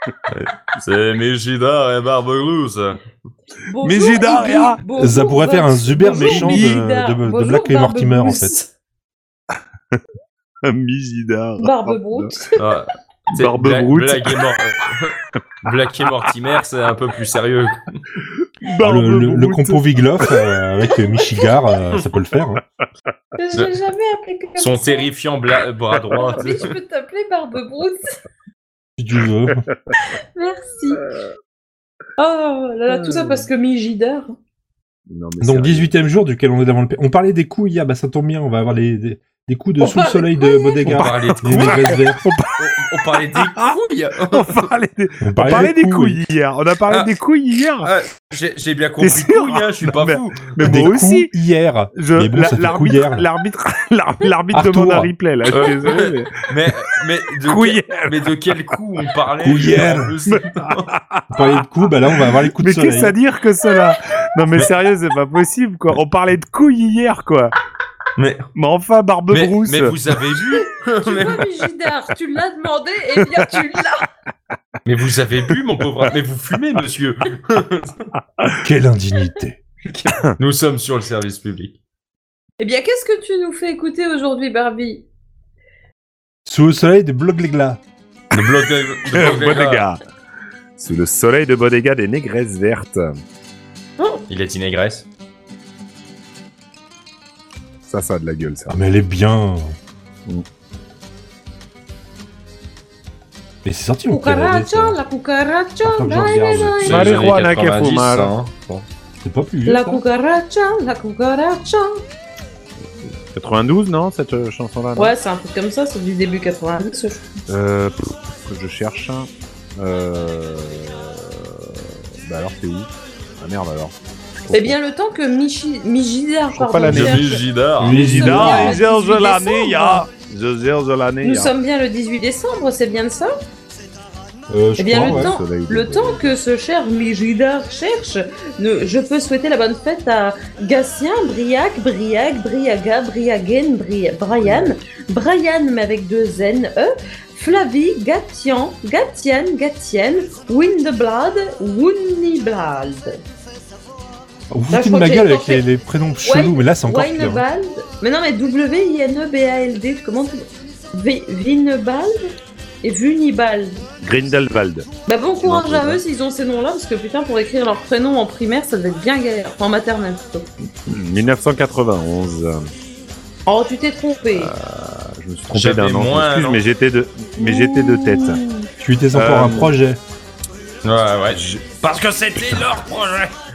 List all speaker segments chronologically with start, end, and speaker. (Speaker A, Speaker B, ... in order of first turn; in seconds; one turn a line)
Speaker A: 0.3-3.0
Speaker B: 3.6-8.7
Speaker C: 3.8-4.8
Speaker D: 5.0-8.5
Speaker C: 6.0-6.8
Speaker C: 10.7-12.3
Speaker B: 11.6-12.6
Speaker A: 12.6-18.2
Speaker C: 13.3-14.4
Speaker C: 18.6-20.3
Speaker D: 18.8-22.6
Speaker B: 21.1-21.5
Speaker B: 23.4-25.1
Speaker A: 24.6-26.7
Speaker B: 26.2-28.0
Speaker D: 29.0-29.6
Speaker B: 30.2-31.1
Speaker B: 32.2-34.3
Speaker C: 32.9-33.5
Speaker C: 35.1-35.9
Speaker D: 35.4-42.2
Speaker B: 39.8-41.0
Speaker A: 40.8-41.9
Speaker C: 41.5-42.6
Speaker A: 42.6-44.6
Speaker C: 43.3-43.7
Speaker C: 44.3-47.9
Speaker D: 45.2-46.2
Speaker A: 47.8-50.5
Speaker C: 49.0-51.3
Speaker D: 50.6-53.3
Speaker C: 52.0-56.7
Speaker D: 54.5-55.1
Speaker A: 55.5-60.9
Speaker C: 57.5-58.3
Speaker D: 59.4-60.1
Speaker C: 60.3-61.3
Speaker D: 61.3-63.1
Speaker C: 62.2-67.5
Speaker A: 68.2-68.5
Speaker C: 68.5-70.0
Speaker A: 69.3-71.4
Speaker B: 71.0-74.1
Speaker A: 74.9-78.0
Speaker D: 78.6-79.6
Speaker A: 79.8-81.8
Speaker B: 82.6-85.0
Speaker D: 86.5-87.8
Speaker A: 88.3-89.9
Speaker C: 89.1-90.0
Speaker C: 90.8-93.1
Speaker A: 94.3-95.1
Speaker C: 97.9-98.8
Speaker D: 98.7-99.8
Speaker D: 103.6-105.0
Speaker B: 104.1-107.0
Speaker D: 105.8-107.2
Speaker A: 106.8-108.9
Speaker C: 106.9-108.3
Speaker D: 109.2-110.0
Speaker B: 109.7-112.0
Speaker C: 112.8-115.1
Speaker B: 115.0-117.3
Speaker C: 117.5-124.8
Speaker B: 124.5-130.1
Speaker C: 126.5-127.2
Speaker A: 126.9-128.1
Speaker D: 127.8-128.8
Speaker C: 127.9-131.6
Speaker B: 131.2-133.3
Speaker D: 134.5-135.3
Speaker B: 134.8-153.1
Speaker C: 134.9-136.3
Speaker C: 144.3-144.8
Speaker D: 154.5-157.4
Speaker B: 154.7-155.6
Speaker B: 156.2-162.3
Speaker B: 162.8-163.8
Speaker C: 164.0-164.9
Speaker B: 165.1-170.5
Speaker C: 165.4-166.0
Speaker C: 170.9-172.7
Speaker B: 173.5-174.5
Speaker C: 174.3-178.4
Speaker A: 175.5-176.6
Speaker B: 177.4-178.7
Speaker D: 178.8-180.0
Speaker C: 179.2-179.7
Speaker A: 180.8-183.3
Speaker C: 181.3-181.8
Speaker C: 182.4-182.7